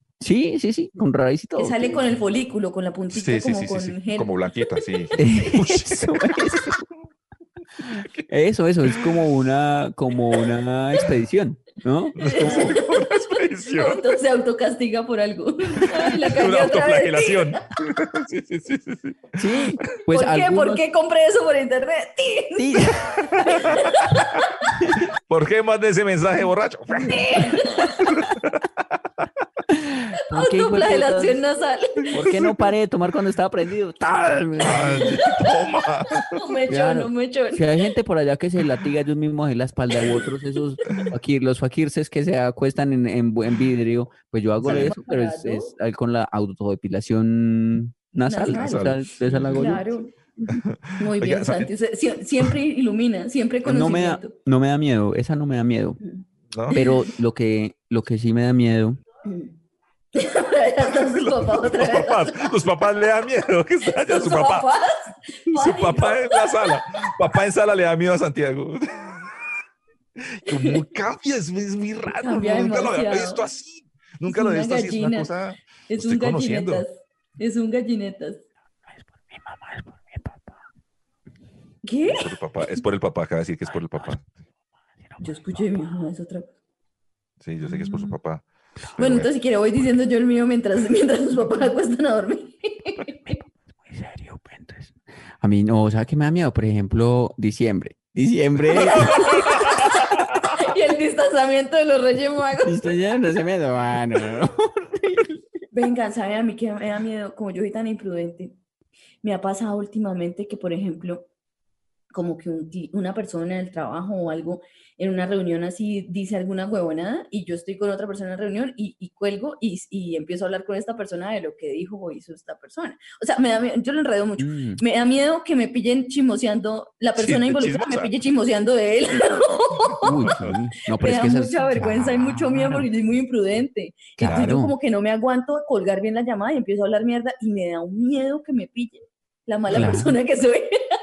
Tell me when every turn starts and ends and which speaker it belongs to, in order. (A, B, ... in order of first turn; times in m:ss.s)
0:00.2-0:02.0 A
0:01.6-0:04.3 B
0:03.1-0:06.6 C
0:05.2-0:06.9 A
0:07.9-0:08.3 C
0:08.3-0:12.8 A
0:08.9-0:09.2 C
0:12.2-0:14.0 C
0:12.2-0:17.6 B
0:16.4-0:19.6 C
0:19.4-0:20.8 A
0:20.1-0:22.8 B
0:22.6-0:23.6 A
0:23.4-0:24.5 B
0:24.8-0:25.0 A
0:25.3-0:27.3 C
0:26.9-0:28.0 B
0:27.3-0:28.1 A
0:28.1-0:28.6 C
0:29.7-0:31.4 A
0:30.3-0:32.3 B
0:32.1-0:35.2 A
0:34.6-0:36.4 C
0:34.7-0:35.4 B
0:36.4-0:37.6 B
0:36.7-0:49.9 A
0:44.6-0:44.9 C
0:44.6-0:45.7 B
0:48.3-0:49.0 B
0:48.5-0:50.0 C
0:49.5-0:54.4 B
0:50.5-0:51.7 C
0:53.6-0:56.0 A
0:56.0-0:57.1 B
0:56.5-0:56.8 C
0:56.7-0:59.0 A
0:59.3-0:59.5 B
1:00.2-1:02.5 B
1:01.0-1:04.7 C
1:04.0-1:06.5 B
1:05.5-1:09.3 C
1:10.4-1:16.8 C
1:12.2-1:13.4 B
1:14.3-1:15.3 B
1:15.9-1:18.4 B
1:18.9-1:20.6 A
1:21.8-1:22.3 B
1:22.1-1:24.3 C
1:23.7-1:24.2 A
1:25.0-1:26.0 A
1:25.2-1:26.5 B
1:27.4-1:28.4 C
1:27.7-1:28.1 B
1:29.0-1:29.3 C
1:29.0-1:33.3 B
1:33.2-1:40.2 A
1:38.7-1:42.8 B
1:38.9-1:40.4 C
1:42.6-1:45.4 A
1:45.7-1:48.6 B
1:49.2-1:51.3 B
1:52.1-2:10.2 B
2:04.4-2:04.8 A
2:07.2-2:08.1 C
2:10.0-2:12.9 A
2:10.2-2:10.6 C
2:10.9-2:20.7 B
2:14.2-2:14.7 A
2:14.2-2:14.5 C
2:19.7-2:20.2 A